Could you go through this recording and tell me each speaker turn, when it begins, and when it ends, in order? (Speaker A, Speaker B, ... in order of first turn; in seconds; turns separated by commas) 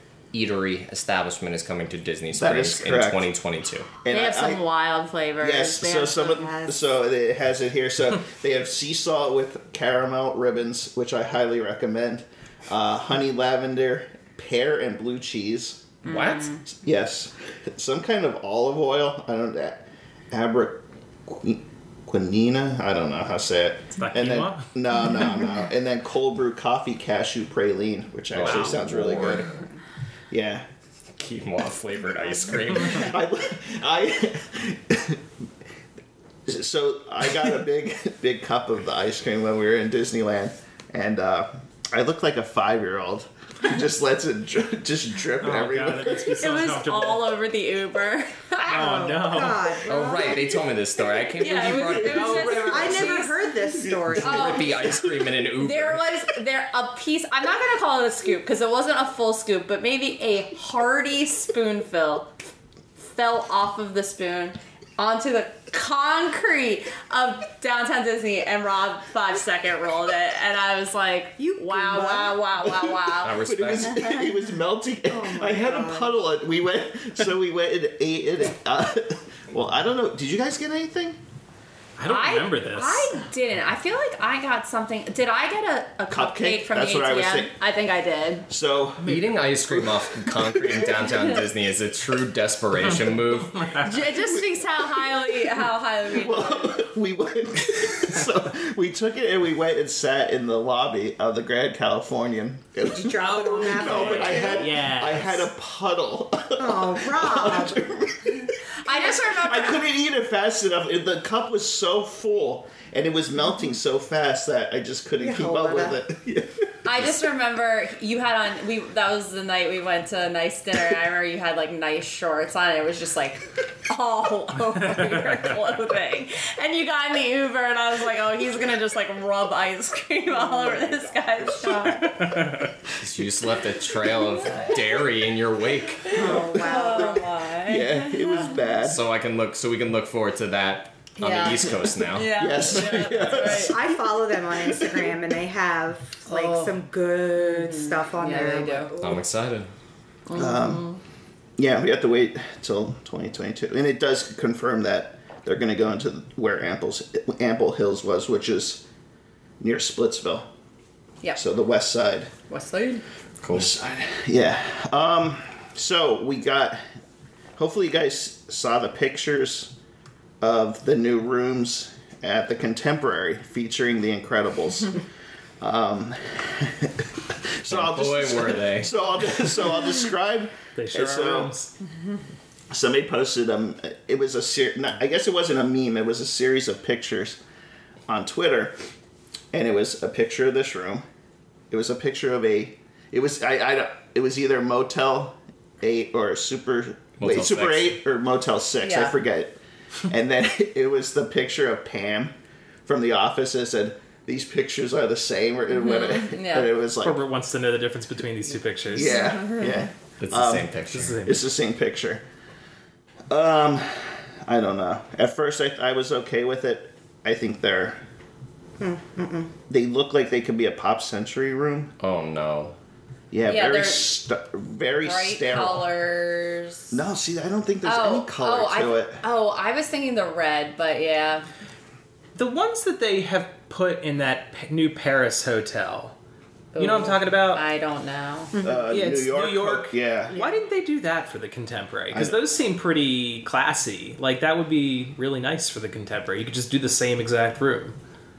Speaker A: 0.3-3.9, Speaker B: 2.3-3.3, Speaker B: 4.0-4.6, Speaker C: 4.1-6.5, Speaker B: 5.4-16.0, Speaker D: 6.3-6.7, Speaker C: 16.0-16.6, Speaker A: 16.1-16.5, Speaker B: 16.7-29.5, Speaker E: 23.9-24.7, Speaker A: 28.3-29.5, Speaker B: 30.3-30.6, Speaker A: 31.2-33.1, Speaker B: 32.8-35.2, Speaker B: 36.5-46.4, Speaker E: 45.4-47.3, Speaker C: 46.3-49.1, Speaker E: 48.7-49.8, Speaker D: 48.7-50.1, Speaker C: 49.8-50.6, Speaker A: 49.9-53.3, Speaker C: 51.3-53.4, Speaker E: 52.0-52.9, Speaker D: 52.5-54.7, Speaker B: 53.7-55.2, Speaker A: 54.1-56.0, Speaker C: 54.2-54.8, Speaker C: 55.6-62.3, Speaker C: 63.1-73.4, Speaker D: 71.4-72.7, Speaker A: 73.2-74.1, Speaker B: 73.3-81.2, Speaker D: 75.1-76.2, Speaker E: 82.0-83.1, Speaker C: 82.0-88.5, Speaker B: 86.1-87.5, Speaker B: 88.5-91.0, Speaker A: 89.0-93.8, Speaker E: 93.5-93.9, Speaker C: 93.8-96.8, Speaker B: 96.1-117.1, Speaker D: 102.9-104.8, Speaker E: 103.2-105.4, Speaker D: 106.6-107.9, Speaker C: 108.8-109.8, Speaker D: 115.2-116.0, Speaker C: 116.8-132.3, Speaker B: 130.5-130.8, Speaker B: 131.5-131.9, Speaker E: 132.2-132.7, Speaker A: 132.9-136.2, Speaker C: 134.4-134.8, Speaker C: 136.1-138.6, Speaker D: 136.1-137.3, Speaker B: 136.3-139.0, Speaker A: 138.8-142.3, Speaker C: 141.2-143.8, Speaker B: 142.3-145.1, Speaker D: 143.3-149.2, Speaker C: 146.2-146.8, Speaker C: 147.3-148.9, Speaker A: 149.0-149.7, Speaker C: 150.3-151.0, Speaker B: 150.3-150.8, Speaker B: 151.6-158.8, Speaker B: 159.6-160.5, Speaker B: 161.3-162.3, Speaker C: 162.5-163.0, Speaker A: 163.4-163.7, Speaker B: 163.5-166.8, Speaker B: 167.6-169.7, Speaker B: 170.4-175.0, Speaker B: 175.6-181.5, Speaker A: 177.7-178.9, Speaker E: 180.8-181.7, Speaker B: 182.7-187.4, Speaker B: 188.1-188.7, Speaker B: 189.5-191.0, Speaker B: 191.7-202.3, Speaker A: 197.2-197.9, Speaker C: 198.8-199.2, Speaker B: 202.8-207.2, Speaker C: 205.7-206.7, Speaker E: 207.0-209.2, Speaker B: 208.9-210.7, Speaker C: 209.0-209.6, Speaker A: 210.2-211.2, Speaker E: 210.9-211.4, Speaker B: 211.2-212.2, Speaker B: 213.3-218.0, Speaker D: 218.8-219.5, Speaker B: 219.7-221.9, Speaker A: 222.0-222.8, Speaker B: 223.3-225.9, Speaker C: 223.4-224.2, Speaker C: 225.0-226.9, Speaker B: 226.9-229.2, Speaker C: 227.8-231.5, Speaker E: 232.3-236.1, Speaker C: 236.7-238.5, Speaker E: 236.8-237.6, Speaker D: 238.5-238.9, Speaker B: 238.6-240.3, Speaker E: 238.9-247.9, Speaker D: 240.3-240.6, Speaker B: 242.1-242.4